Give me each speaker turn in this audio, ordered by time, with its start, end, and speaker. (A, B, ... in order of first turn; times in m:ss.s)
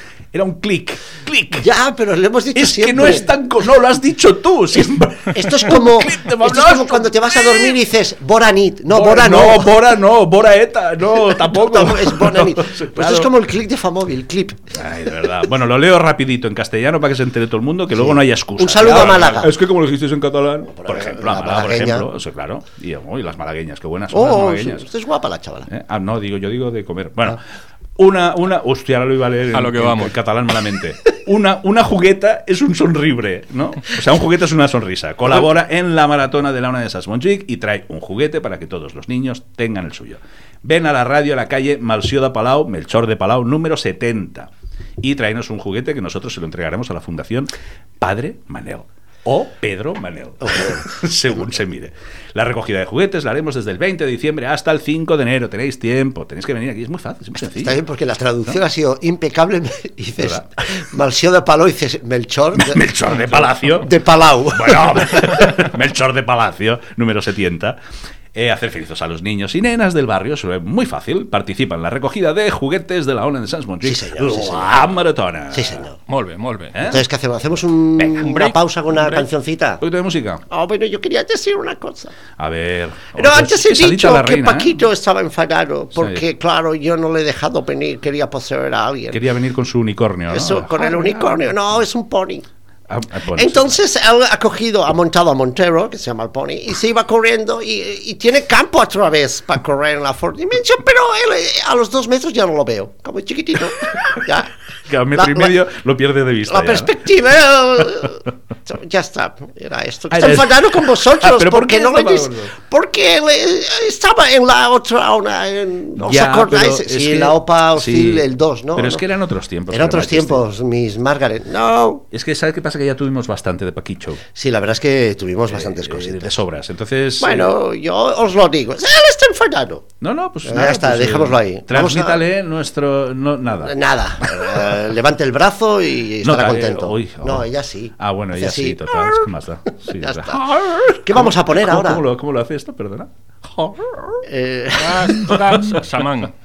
0:00.3-0:01.7 A
0:01.6-0:03.3 B
0:02.5-0:07.8 A
0:05.3-0:09.7 B
0:08.9-0:13.3 A
0:11.3-0:14.7 B
0:14.7-0:24.9 A
0:17.9-0:19.6 B
0:20.7-0:22.1 B
0:24.1-0:25.7 B
0:25.7-0:27.4 A
0:28.0-0:57.8 A
0:29.5-0:30.2 C
0:50.4-0:50.9 B
0:57.4-1:05.5 B
1:00.2-1:00.4 A
1:02.5-1:03.9 A
1:04.5-1:07.8 A
1:08.3-1:15.8 A
1:13.8-1:14.9 B
1:15.5-1:16.0 B
1:16.1-1:16.8 C
1:16.7-1:17.0 A
1:16.8-1:19.8 B
1:18.2-1:19.3 C
1:19.8-1:20.4 A
1:20.5-1:22.1 B
1:22.4-1:24.8 A
1:23.1-1:29.2 B
1:26.0-1:26.2 A
1:29.1-1:31.5 A
1:30.3-1:32.4 B
1:32.9-1:33.7 A
1:33.3-1:44.6 B
1:44.9-1:47.0 A
1:45.1-1:45.5 B
1:46.5-1:59.0 B
1:50.1-1:52.5 A
1:56.0-2:00.4 A
1:59.7-2:02.0 B
2:02.1-2:04.2 A
2:04.3-2:06.4 B
2:05.5-2:07.5 A
2:07.2-2:09.8 B
2:10.0-2:13.7 A
2:10.4-2:12.2 B
2:13.6-2:22.0 B
2:16.2-2:17.5 A
2:18.0-2:24.2 A
2:24.2-2:25.3 B
2:24.8-2:26.3 C
2:25.3-2:25.8 A